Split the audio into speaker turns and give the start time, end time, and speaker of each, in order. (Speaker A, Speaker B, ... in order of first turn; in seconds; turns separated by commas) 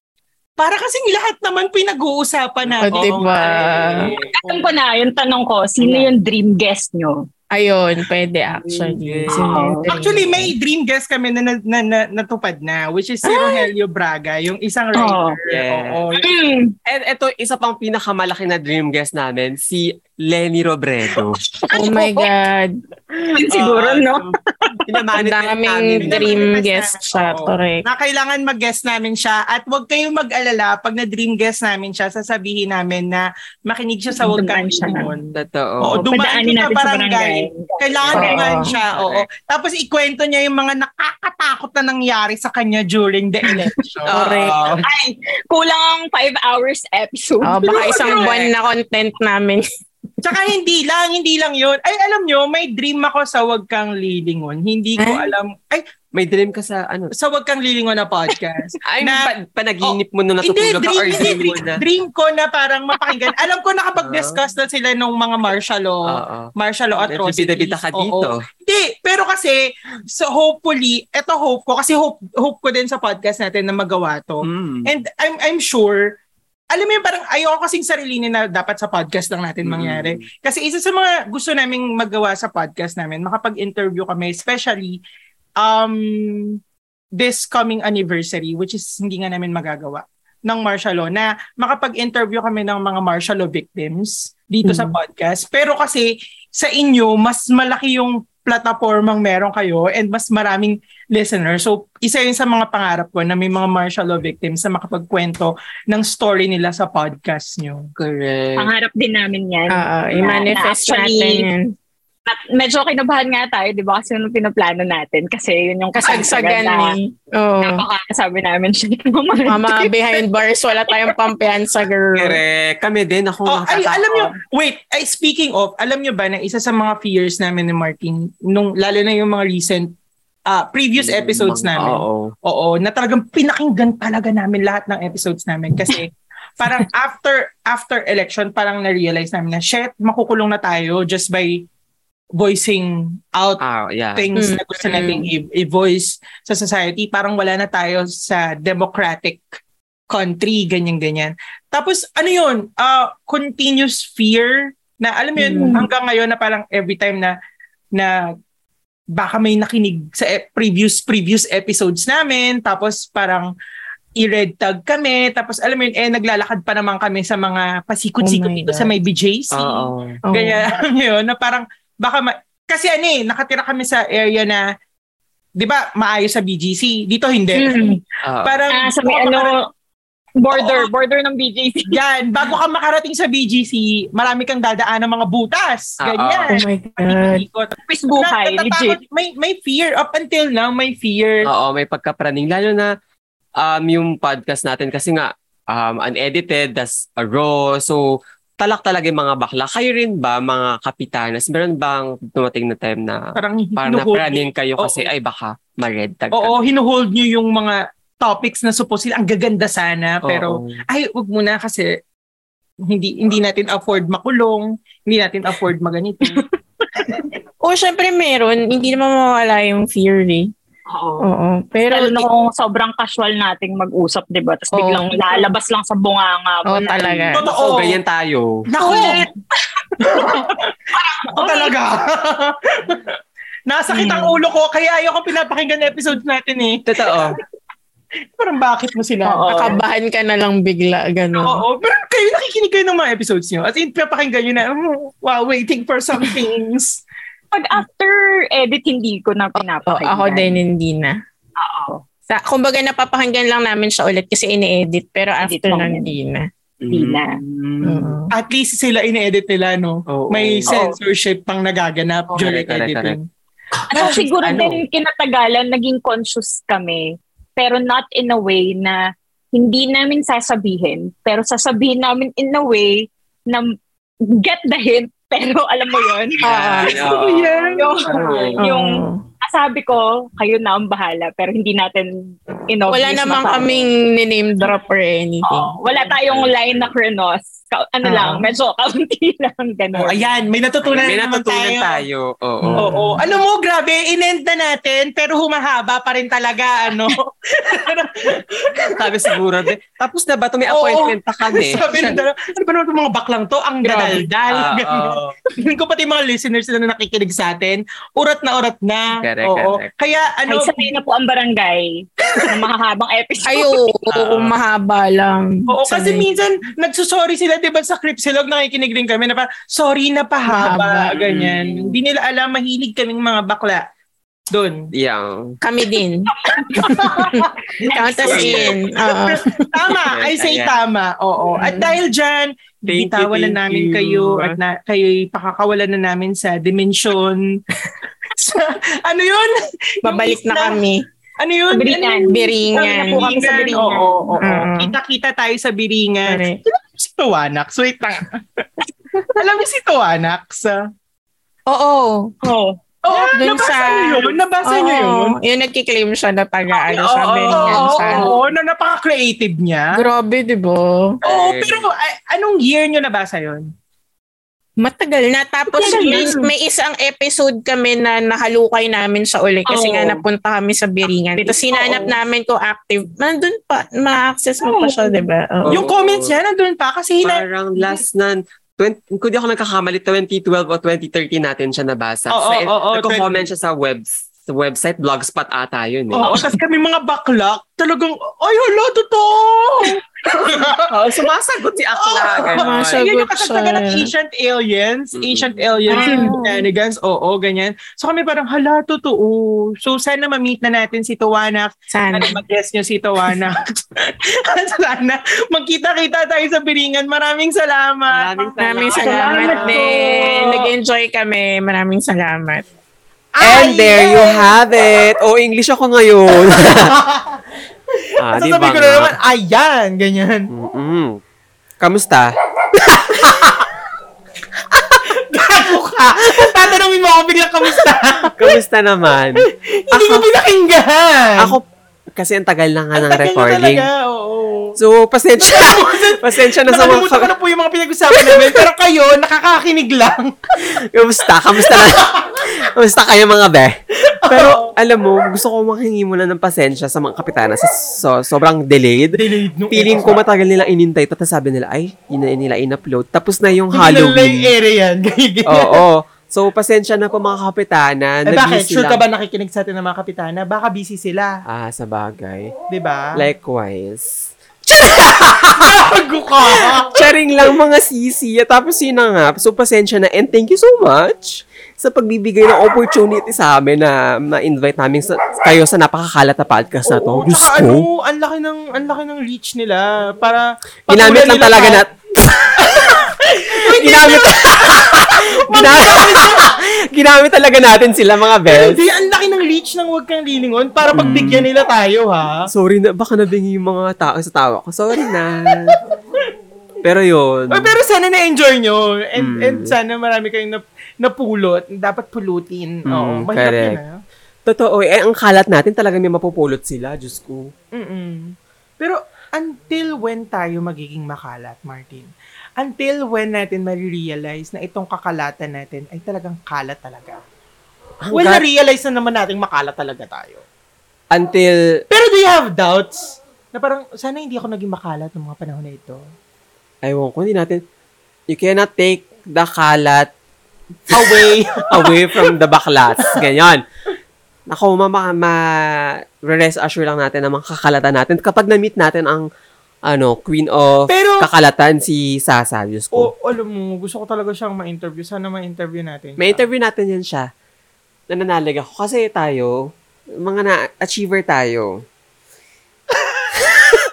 Speaker A: 0.6-4.7, Speaker B: 2.6-4.4, Speaker C: 2.8-4.0, Speaker D: 4.4-7.2, Speaker C: 7.5-10.5, Speaker B: 8.6-9.6, Speaker D: 9.3-9.9, Speaker A: 9.9-16.3, Speaker D: 13.3-13.7, Speaker D: 14.9-15.4, Speaker B: 15.5-16.0, Speaker D: 16.1-16.7, Speaker B: 16.9-21.4, Speaker D: 21.6-22.3, Speaker C: 21.7-22.8, Speaker D: 23.3-24.8, Speaker B: 23.4-24.3, Speaker B: 24.8-26.5, Speaker C: 25.1-27.8, Speaker A: 26.0-44.8, Speaker D: 34.1-35.1, Speaker B: 35.3-35.9, Speaker D: 35.9-38.5, Speaker B: 38.1-39.3, Speaker C: 38.1-38.7, Speaker D: 43.4-43.7, Speaker B: 44.0-44.8, Speaker C: 44.1-44.6, Speaker D: 44.8-48.4, Speaker C: 47.4-49.6, Speaker A: 47.6-48.5, Speaker A: 50.2-55.8, Speaker C: 55.0-55.3, Speaker B: 56.1-57.1, Speaker A: 57.1-59.3, Speaker B: 58.9-61.8, Speaker A: 59.8-76.0, Speaker B: 64.0-64.4, Speaker B: 66.1-68.4, Speaker B: 74.4-74.9, Speaker A: 76.7-85.0, Speaker B: 79.6-80.3, Speaker A: 85.6-86.6, Speaker A: 87.2-107.9, Speaker B: 108.0-108.7, Speaker D: 108.6-111.5, Speaker C: 109.7-111.7, Speaker D: 112.3-117.0, Speaker C: 116.0-117.8, Speaker D: 117.6-120.2, Speaker C: 119.5-122.4, Speaker D: 120.9-121.1, Speaker B: 122.1-124.3, Speaker A: 123.5-129.9, Speaker A: 130.5-141.7, Speaker B: 131.0-132.3, Speaker A: 142.4-143.6, Speaker B: 143.6-144.3, Speaker A: 144.2-149.5, Speaker C: 144.3-145.3, Speaker A: 150.1-157.3, Speaker D: 155.4-155.9, Speaker A: 159.1-163.5, Speaker A: 164.2-174.6, Speaker C: 168.2-168.9, Speaker B: 169.5-170.2, Speaker C: 170.3-170.6, Speaker A: 175.6-177.8, Speaker D: 177.5-178.0, Speaker B: 178.2-178.6, Speaker A: 178.4-179.6, Speaker D: 178.7-179.7, Speaker D: 180.4-182.0, Speaker A: 180.5-180.9, Speaker A: 181.9-191.5, Speaker B: 186.0-186.5, Speaker C: 186.5-187.4, Speaker D: 187.9-189.0, Speaker B: 191.4-192.9, Speaker B: 193.6-198.0, Speaker B: 198.6-206.6, Speaker A: 203.3-205.1, Speaker A: 206.3-211.9, Speaker B: 210.2-210.8, Speaker A: 212.9-216.4, Speaker A: 216.9-217.2, Speaker C: 217.6-220.5, Speaker B: 220.9-221.2, Speaker C: 221.2-222.3, Speaker D: 221.9-227.5, Speaker C: 224.7-225.4, Speaker C: 226.7-227.4, Speaker A: 227.3-228.0, Speaker B: 227.5-228.7, Speaker A: 228.7-229.3, Speaker D: 228.8-229.3, Speaker A: 230.0-230.7, Speaker D: 230.9-231.7, Speaker A: 231.3-233.2, Speaker A: 233.7-237.3, Speaker D: 233.9-234.3, Speaker B: 236.9-237.4, Speaker A: 238.3-239.8, Speaker D: 239.2-239.8, Speaker C: 239.5-241.6, Speaker A: 241.4-247.0, Speaker D: 247.5-250.6, Speaker C: 249.6-251.2, Speaker D: 251.6-252.0, Speaker C: 252.3-256.5, Speaker D: 255.4-256.1, Speaker B: 256.8-258.2, Speaker D: 256.9-257.4, Speaker C: 257.8-258.3, Speaker A: 258.3-263.2, Speaker B: 260.1-260.7, Speaker D: 260.7-261.0, Speaker B: 262.4-263.2, Speaker D: 263.9-269.0, Speaker B: 263.9-264.8, Speaker D: 269.5-273.7, Speaker D: 274.3-277.1, Speaker B: 276.4-278.6, Speaker C: 276.4-276.9, Speaker A: 277.0-278.4, Speaker D: 277.8-283.9, Speaker C: 278.6-279.2, Speaker C: 282.9-285.7, Speaker D: 285.4-290.2, Speaker B: 286.3-286.9, Speaker A: 288.1-288.4, Speaker A: 289.9-292.0, Speaker B: 290.8-292.9, Speaker A: 292.7-299.4, Speaker B: 298.9-301.8, Speaker A: 300.7-310.9, Speaker B: 303.9-305.3, Speaker B: 309.2-309.9, Speaker D: 310.5-313.8, Speaker C: 313.4-316.2, Speaker B: 314.1-314.6, Speaker A: 315.7-323.9, Speaker C: 320.5-321.1, Speaker B: 321.2-322.0, Speaker A: 324.5-324.9, Speaker B: 324.9-325.6, Speaker C: 325.6-326.3, Speaker D: 326.4-328.8, Speaker A: 326.8-328.6, Speaker C: 327.9-329.7, Speaker B: 328.2-328.8, Speaker A: 329.1-337.6, Speaker B: 330.1-330.7, Speaker C: 331.6-331.9, Speaker B: 332.9-334.6, Speaker A: 338.3-340.8, Speaker C: 340.0-341.1, Speaker A: 341.4-348.6, Speaker D: 341.7-344.4, Speaker C: 342.3-343.3, Speaker C: 344.4-344.9, Speaker C: 346.3-346.6, Speaker A: 349.3-350.8, Speaker C: 351.7-352.3, Speaker D: 352.4-352.8, Speaker A: 353.1-355.4, Speaker C: 353.3-358.3, Speaker A: 356.7-359.9, Speaker D: 357.5-358.4, Speaker C: 359.9-361.2, Speaker B: 361.2-361.9, Speaker A: 361.2-363.7, Speaker C: 364.8-375.8, Speaker D: 365.7-366.5, Speaker A: 365.8-366.3, Speaker D: 369.7-370.2, Speaker D: 371.4-372.1, Speaker D: 374.6-375.3, Speaker B: 375.6-376.3, Speaker A: 375.7-378.0, Speaker B: 377.2-386.3, Speaker A: 382.3-383.4, Speaker A: 386.1-390.9, Speaker B: 390.9-393.1, Speaker A: 391.9-410.6, Speaker C: 392.5-394.1, Speaker B: 395.1-395.9, Speaker D: 395.9-396.4, Speaker C: 395.9-396.6, Speaker C: 401.9-402.4, Speaker B: 408.1-409.7, Speaker C: 408.6-412.6, Speaker D: 409.0-410.6, Speaker A: 413.4-414.5, Speaker B: 413.4-417.0, Speaker A: 416.6-417.4, Speaker A: 418.0-420.5, Speaker B: 418.2-419.1, Speaker B: 420.5-421.2, Speaker B: 421.8-422.3, Speaker B: 422.9-423.5, Speaker A: 423.1-423.7, Speaker A: 424.7-428.6, Speaker B: 428.4-430.3, Speaker A: 429.9-431.6, Speaker B: 431.4-431.6, Speaker B: 432.1-433.9, Speaker A: 432.9-434.8, Speaker B: 434.8-437.3, Speaker A: 435.4-440.5, Speaker B: 440.6-449.2, Speaker A: 441.5-442.5, Speaker A: 444.2-444.7, Speaker A: 449.1-450.2, Speaker B: 449.7-454.5, Speaker A: 453.7-455.8, Speaker B: 455.4-459.0, Speaker A: 458.3-461.4, Speaker B: 461.5-462.5, Speaker A: 462.7-463.2, Speaker B: 463.1-465.8, Speaker A: 465.6-466.9, Speaker B: 466.5-477.9, Speaker A: 476.9-481.8, Speaker B: 480.9-488.8, Speaker A: 482.6-486.6, Speaker A: 488.4-492.5, Speaker B: 490.9-491.5, Speaker B: 492.5-495.8, Speaker B: 496.8-497.7, Speaker A: 497.5-504.0, Speaker B: 499.2-499.7, Speaker B: 502.9-503.8, Speaker B: 504.4-507.5, Speaker A: 507.7-517.2, Speaker B: 518.0-518.4, Speaker A: 518.1-520.4, Speaker B: 521.1-521.8, Speaker A: 521.9-526.0, Speaker B: 526.8-527.6, Speaker B: 528.3-530.1, Speaker A: 530.9-532.3, Speaker B: 530.9-533.6, Speaker A: 533.0-533.2, Speaker B: 534.5-539.2, Speaker B: 539.9-543.1, Speaker A: 540.9-541.3, Speaker A: 542.9-546.4, Speaker B: 546.2-547.3, Speaker B: 548.1-551.8